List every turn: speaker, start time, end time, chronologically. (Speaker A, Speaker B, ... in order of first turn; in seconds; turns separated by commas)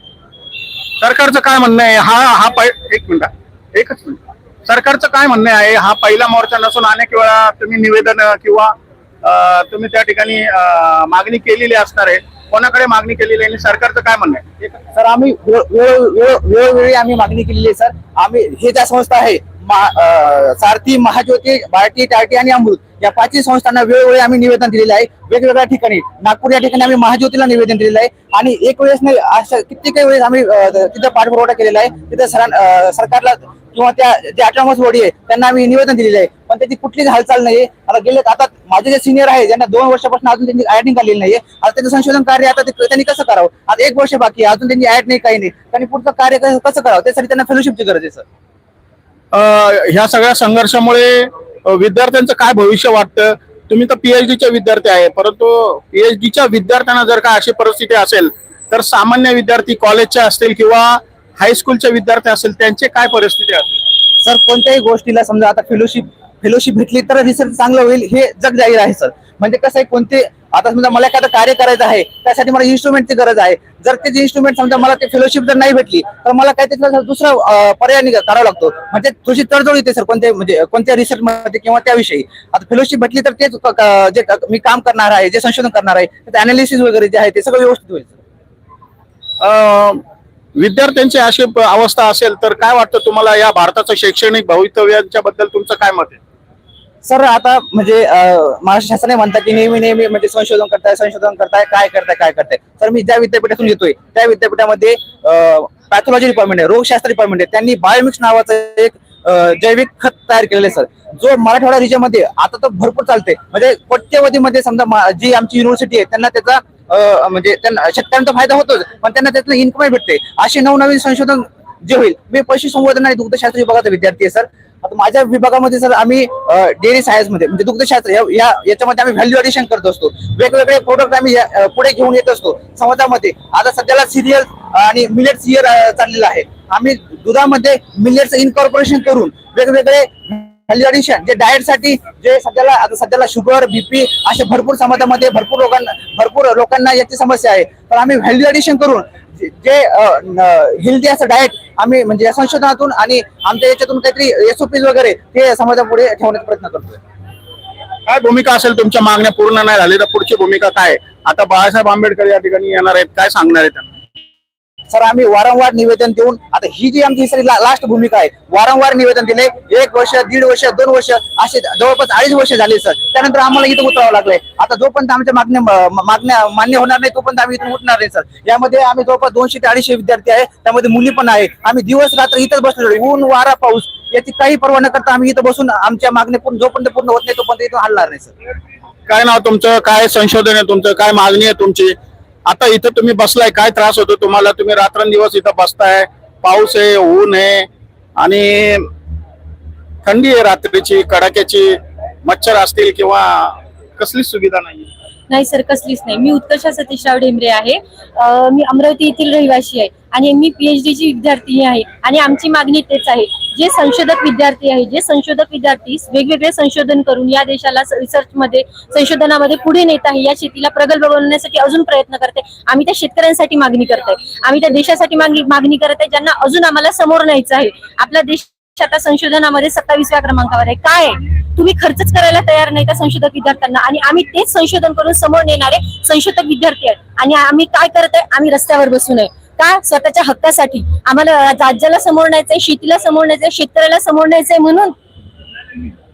Speaker A: 1.0-14.8, Speaker B: 14.9-48.2, Speaker A: 49.3-63.8, Speaker B: 64.2-88.2, Speaker A: 89.4-90.0, Speaker A: 90.5-96.2, Speaker B: 97.0-157.0, Speaker A: 158.1-163.9, Speaker B: 164.9-188.3, Speaker A: 189.1-198.9, Speaker A: 200.0-204.9, Speaker C: 205.3-244.9